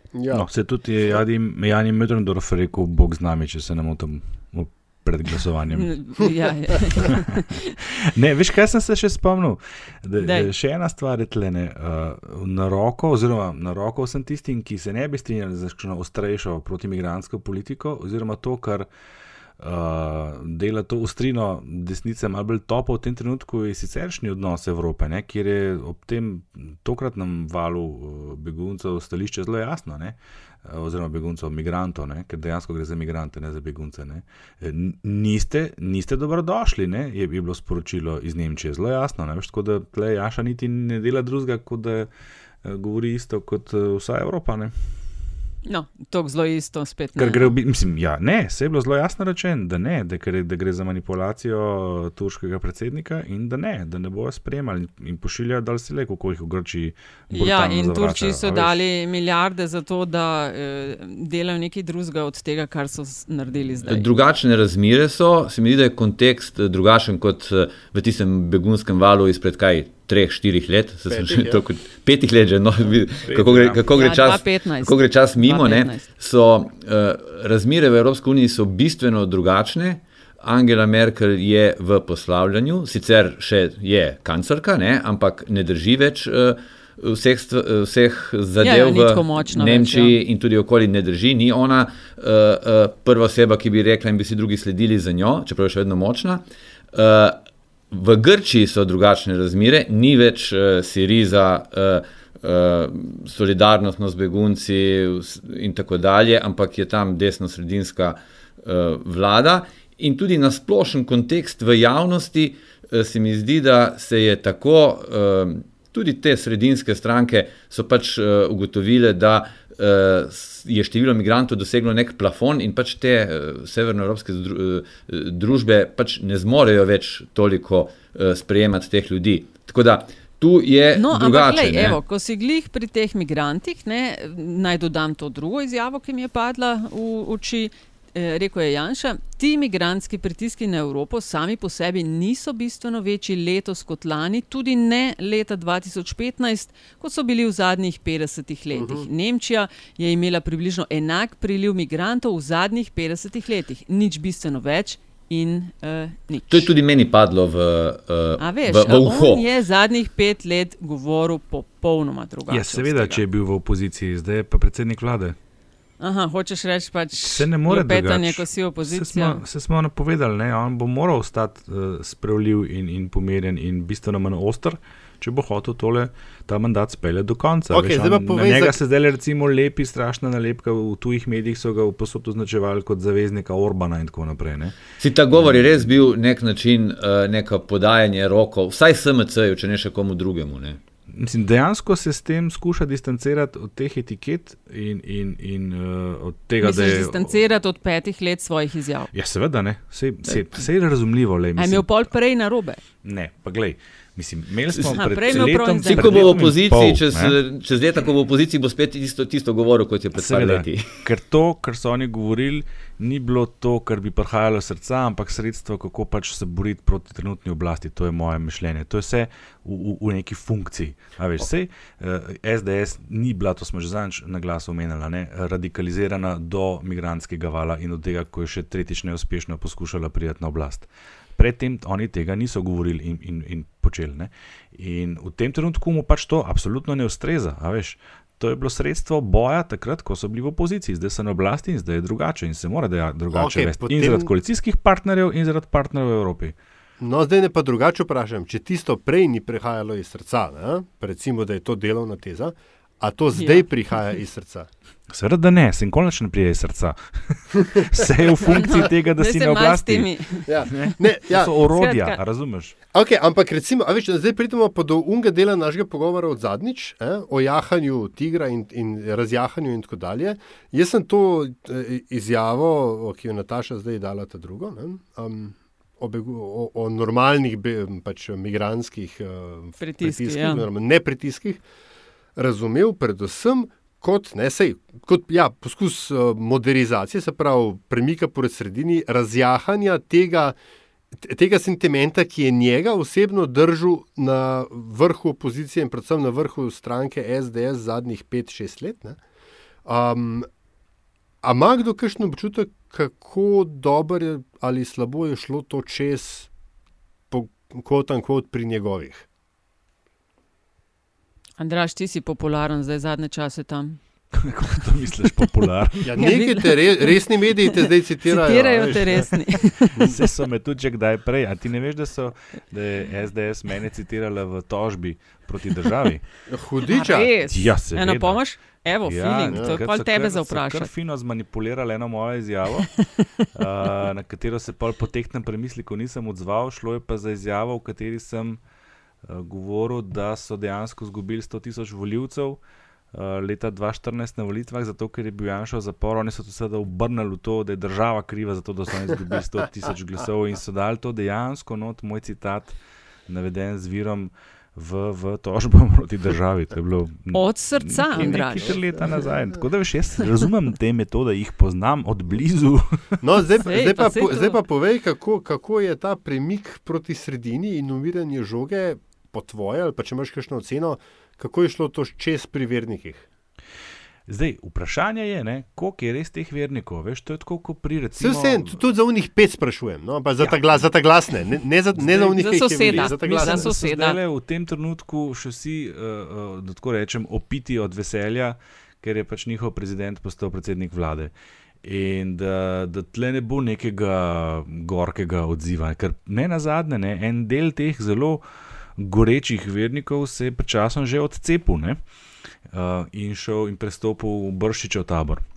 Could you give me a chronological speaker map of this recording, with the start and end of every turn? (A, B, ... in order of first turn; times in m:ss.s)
0:00.1-0:00.5 A
0:00.3-0:05.9 B
0:05.7-0:07.7 C
0:08.0-0:18.9 B
0:10.2-0:10.5 C
0:19.6-0:42.1 B
0:42.6-0:44.7 B
0:45.6-0:47.6 C
0:47.2-0:58.8 B
0:57.3-1:04.1 C
1:03.9-1:37.4 D
1:11.1-1:11.6 A
1:13.2-1:13.8 B
1:13.9-1:16.1 C
1:28.6-1:30.2 C
1:37.9-2:12.0 D
2:10.9-2:36.7 C
2:28.7-2:29.1 A
2:36.5-2:39.4 D
2:38.4-2:43.2 C
2:42.5-2:45.4 B
2:46.0-2:49.4 C
2:47.2-3:04.8 B
2:57.7-2:58.8 A
3:05.0-3:10.8 D
3:11.1-3:17.4 B
3:16.6-3:19.1 C
3:19.1-3:22.1 B
3:20.2-3:20.6 C
3:21.6-3:22.8 C
3:23.0-3:27.3 B
3:24.8-3:26.5 C
3:25.3-3:30.9 D
3:30.2-4:06.5 B
4:03.3-4:04.3 A
4:07.0-4:14.7 A
4:13.3-4:13.6 C
4:15.1-4:20.1 B
4:18.4-4:20.5 C
4:20.5-4:21.6 A
4:20.7-4:22.8 B
4:21.6-4:22.2 C
4:22.9-4:41.6 A
4:39.8-4:40.6 C
4:42.4-4:50.6 A
4:51.1-4:59.2 A
4:59.8-5:00.5 A
5:01.4-5:06.5 A
5:07.3-5:09.2 A
5:11.6-5:14.0 C
5:14.3-5:16.1 B
5:16.0-5:19.4 A
5:16.2-5:20.0 C
5:20.0-5:26.2 B
5:26.5-5:27.3 A
5:26.9-5:30.9 C
5:27.4-5:32.9 B
5:32.8-5:33.4 C
5:33.5-5:38.6 B
5:39.2-5:42.6 B
5:43.1-5:52.8 B
5:53.3-6:03.2 B
5:57.3-5:58.9 C
6:03.2-6:13.2 A
6:03.6-6:04.6 C
6:14.3-6:18.8 B
6:18.2-6:23.6 A
6:22.2-6:24.2 C
6:22.8-6:31.3 B
6:31.8-6:38.4 B
6:39.0-6:42.0 B
6:42.7-6:45.4 B